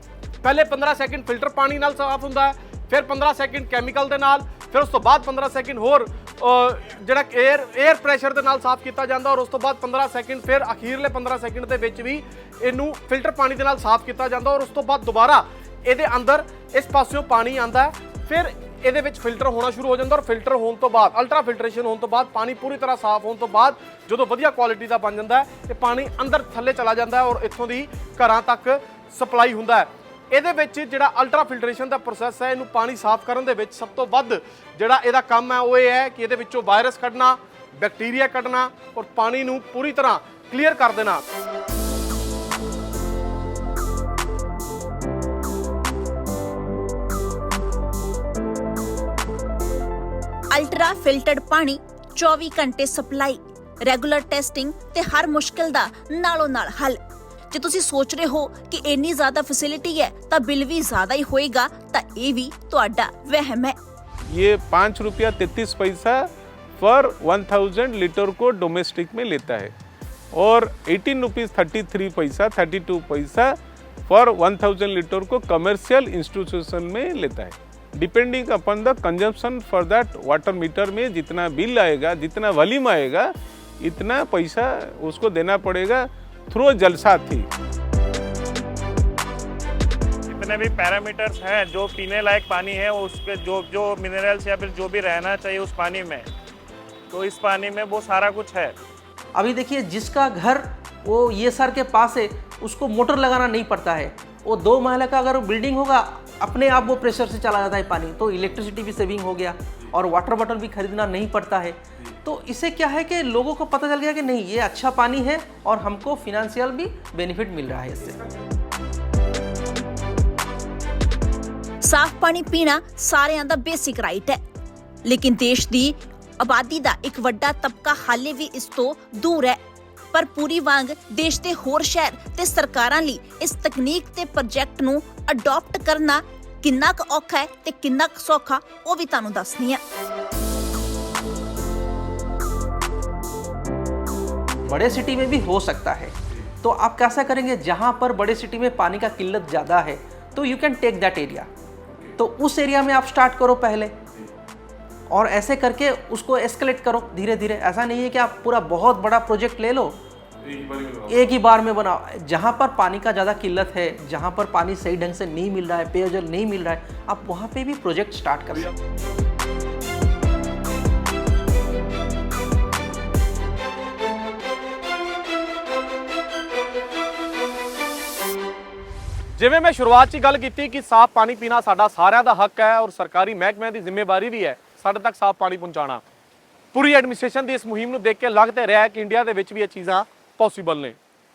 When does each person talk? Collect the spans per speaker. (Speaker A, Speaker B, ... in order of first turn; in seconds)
Speaker A: 0.4-41.2, 179.4-186.0, 186.7-190.9
Speaker B: 50.5-57.0, 57.5-63.7, 121.8-124.4, 125.0-129.6, 130.1-139.8
Speaker C: 64.3-69.7, 70.3-87.5
Speaker D: 90.3-96.3, 97.1-98.7
Speaker E: 99.3-118.2, 144.7-151.5, 152.2-154.0, 155.1-160.0, 161.1-168.7